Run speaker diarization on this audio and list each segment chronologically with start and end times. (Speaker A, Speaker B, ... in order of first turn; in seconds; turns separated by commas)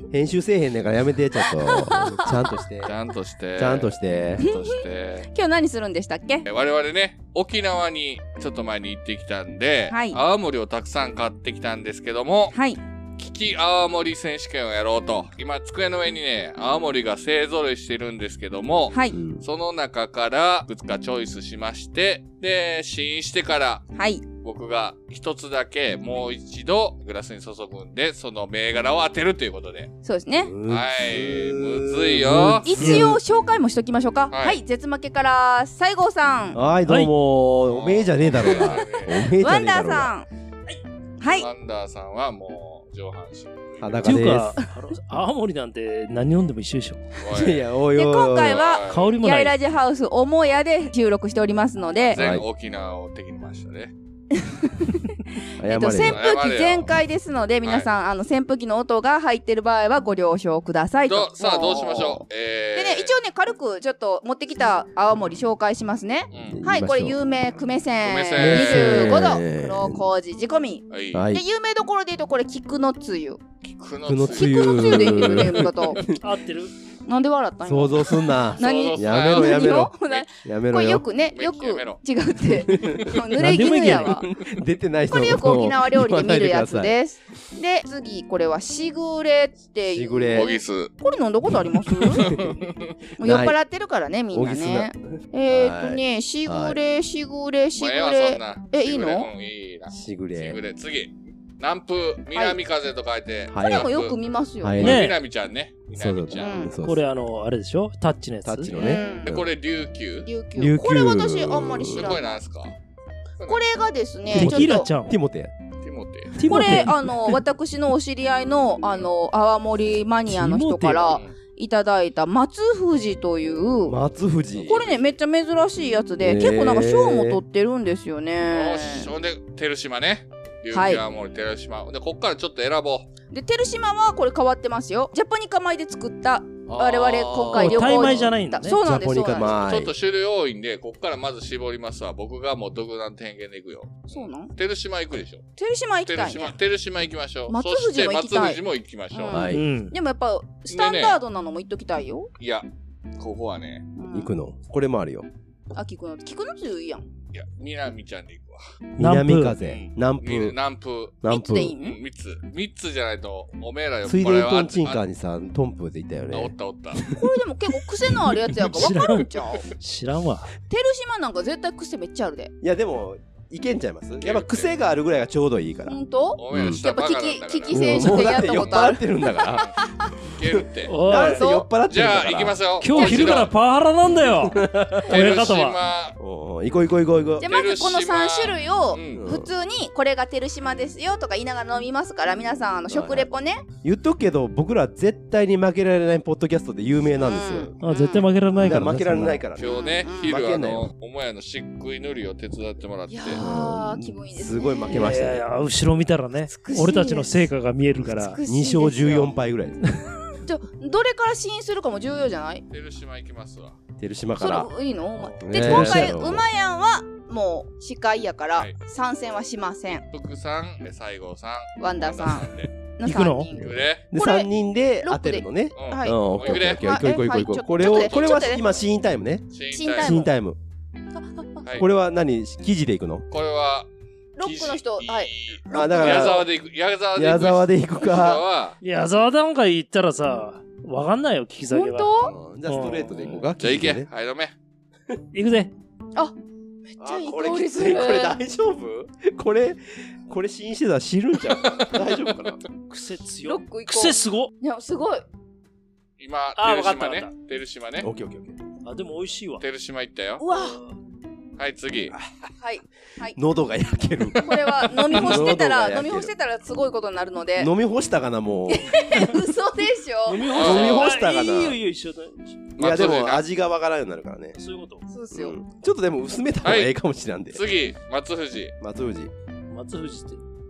Speaker A: 0.1-2.9, Speaker B: 1.7-2.3, Speaker C: 2.8-5.3, Speaker A: 3.6-4.5, Speaker B: 4.5-4.8, Speaker B: 5.3-6.5, Speaker C: 6.5-12.6, Speaker B: 9.9-10.2, Speaker B: 12.5-12.8, Speaker C: 13.2-23.9, Speaker B: 18.9-19.2, Speaker A: 19.1-19.4, Speaker B: 23.9-24.3, Speaker C: 24.4-29.9, Speaker B: 30.0-30.5, Speaker A: 30.4-33.2, Speaker C: 30.7-32.7, Speaker B: 32.6-36.6, Speaker D: 32.8-33.2, Speaker C: 34.3-34.6, Speaker A: 36.5-40.1, Speaker C: 37.7-39.3, Speaker B: 38.4-38.8, Speaker B: 39.4-40.3, Speaker B: 41.2-41.5, Speaker C: 41.4-44.2, Speaker A: 43.8-44.6, Speaker D: 44.0-47.1, Speaker C: 47.2-47.6, Speaker A: 47.3-48.6, Speaker B: 47.9-52.2, Speaker C: 48.5-49.1, Speaker D: 48.9-49.5, Speaker C: 52.0-53.9, Speaker A: 52.1-52.5, Speaker B: 54.4-62.2, Speaker A: 55.6-56.2, Speaker C: 56.0-56.9, Speaker C: 61.0-63.1, Speaker B: 62.8-73.4, Speaker C: 66.3-66.6, Speaker A: 66.5-67.2, Speaker C: 68.0-69.3, Speaker A: 68.4-70.1, Speaker C: 70.9-71.3, Speaker A: 71.1-71.4, Speaker C: 73.6-76.0, Speaker A: 74.1-76.1, Speaker B: 74.3-76.1, Speaker D: 76.2-76.7, Speaker B: 77.1-84.2, Speaker A: 77.6-81.0, Speaker C: 78.6-80.2, Speaker C: 81.3-82.0, Speaker A: 82.7-87.0, Speaker D: 83.4-84.2, Speaker B: 85.1-92.3, Speaker A: 89.9-90.5, Speaker C: 90.3-90.9, Speaker C: 92.1-93.0, Speaker A: 92.1-92.6, Speaker B: 93.2-99.3, Speaker A: 93.2-93.6, Speaker A: 94.3-96.8, Speaker C: 97.8-104.2, Speaker A: 99.9-100.6, Speaker A: 103.5-103.9, Speaker B: 103.6-105.0, Speaker A: 104.6-105.0, Speaker C: 104.8-106.7, Speaker D: 104.8-105.2, Speaker A: 105.9-107.0, Speaker B: 106.4-106.8, Speaker D: 106.8-108.8, Speaker A: 108.5-109.0, Speaker B: 108.8-109.5, Speaker C: 108.8-110.3, Speaker B: 110.2-112.3, Speaker A: 110.6-112.1, Speaker C: 111.9-112.8, Speaker B: 113.5-114.9, Speaker D: 114.3-115.1, Speaker A: 114.3-115.5, Speaker C: 115.8-116.4, Speaker D: 116.4-117.3, Speaker B: 116.5-124.0, Speaker D: 120.3-121.1, Speaker C: 121.0-121.3, Speaker A: 123.9-124.9, Speaker B: 124.7-129.1, Speaker A: 126.2-127.4, Speaker C: 128.5-133.1, Speaker B: 130.7-131.0, Speaker B: 133.3-139.6, Speaker A: 136.7-139.9, Speaker D: 137.5-138.8, Speaker C: 139.5-145.4, Speaker B: 144.1-144.5, Speaker B: 145.6-146.6, Speaker C: 146.1-149.5, Speaker B: 147.5-148.6, Speaker B: 149.1-152.3, Speaker A: 149.3-149.7, Speaker D: 149.5-149.9, Speaker C: 150.7-151.2, Speaker C: 152.4-153.8, Speaker B: 154.0-154.3, Speaker A: 154.1-155.3, Speaker B: 155.7-157.1, Speaker C: 157.3-158.6, Speaker A: 159.0-160.6, Speaker D: 159.0-159.6, Speaker C: 159.6-161.2, Speaker A: 161.2-161.8, Speaker B: 161.3-162.0, Speaker C: 161.8-165.0, Speaker A: 164.1-167.2, Speaker C: 166.3-167.1, Speaker B: 167.1-169.7, Speaker D: 168.6-169.3, Speaker D: 169.8-170.5, Speaker B: 170.7-172.5, Speaker A: 172.6-176.0, Speaker C: 174.2-174.7, Speaker B: 175.9-179.7, Speaker C: 176.4-178.9, Speaker A: 176.5-176.8, Speaker A: 177.7-179.7, Speaker C: 180.3-180.9, Speaker A: 180.4-182.6, Speaker D: 180.9-181.4, Speaker B: 181.1-181.7, Speaker C: 181.9-183.5, Speaker D: 182.8-185.8, Speaker B: 182.9-183.5, Speaker A: 184.4-185.5, Speaker C: 185.1-186.2, Speaker A: 186.2-187.5, Speaker B: 187.4-193.6, Speaker C: 187.4-189.2, Speaker A: 189.2-189.5, Speaker A: 192.9-193.3, Speaker A: 193.8-197.8, Speaker B: 197.2-198.3, Speaker D: 197.8-199.5, Speaker A: 198.6-200.9, Speaker C: 199.6-203.4, Speaker B: 199.6-200.3, Speaker B: 203.1-205.2, Speaker A: 203.4-205.4, Speaker D: 204.9-208.4, Speaker B: 206.5-207.5, Speaker B: 208.0-209.3, Speaker A: 208.4-209.9, Speaker B: 210.4-212.6, Speaker C: 212.7-213.8, Speaker A: 214.0-214.7, Speaker B: 214.4-220.1, Speaker A: 215.4-216.5, Speaker C: 215.6-216.1, Speaker C: 220.1-222.7, Speaker B: 221.8-223.6, Speaker A: 223.1-230.6, Speaker D: 223.1-223.5, Speaker C: 223.6-224.0, Speaker B: 224.1-224.5, Speaker B: 225.0-228.6, Speaker C: 225.8-226.9, Speaker C: 227.8-228.6, Speaker C: 229.5-230.3, Speaker B: 229.7-230.3, Speaker B: 231.2-231.7, Speaker A: 231.8-233.3, Speaker C: 233.3-233.9, Speaker B: 234.4-236.5, Speaker C: 234.4-238.8, Speaker A: 235.7-236.5, Speaker A: 237.2-238.4, Speaker D: 238.8-242.2, Speaker B: 241.7-242.3, Speaker A: 242.2-244.1, Speaker D: 242.7-243.4, Speaker C: 243.6-244.5, Speaker D: 245.3-245.7, Speaker B: 246.9-248.4, Speaker A: 247.0-252.6, Speaker C: 251.6-252.4, Speaker D: 252.9-254.5, Speaker B: 253.4-255.2, Speaker C: 256.2-258.1, Speaker D: 256.6-257.3, Speaker A: 258.0-258.6, Speaker D: 258.9-259.6, Speaker C: 259.6-260.4, Speaker B: 260.4-260.8, Speaker D: 260.5-260.9, Speaker C: 261.6-262.1, Speaker B: 262.6-263.4, Speaker A: 263.4-264.4, Speaker B: 264.4-267.7, Speaker C: 265.1-265.5, Speaker A: 265.1-266.3, Speaker A: 267.6-269.3, Speaker B: 268.7-271.1, Speaker D: 270.3-272.7, Speaker C: 270.5-271.1, Speaker A: 270.6-271.8, Speaker C: 272.8-273.4, Speaker A: 272.8-274.6, Speaker D: 274.6-275.1, Speaker B: 275.1-275.6, Speaker A: 275.3-277.6, Speaker C: 276.6-276.9, Speaker C: 277.5-278.7, Speaker A: 278.8-279.3, Speaker D: 279.7-280.4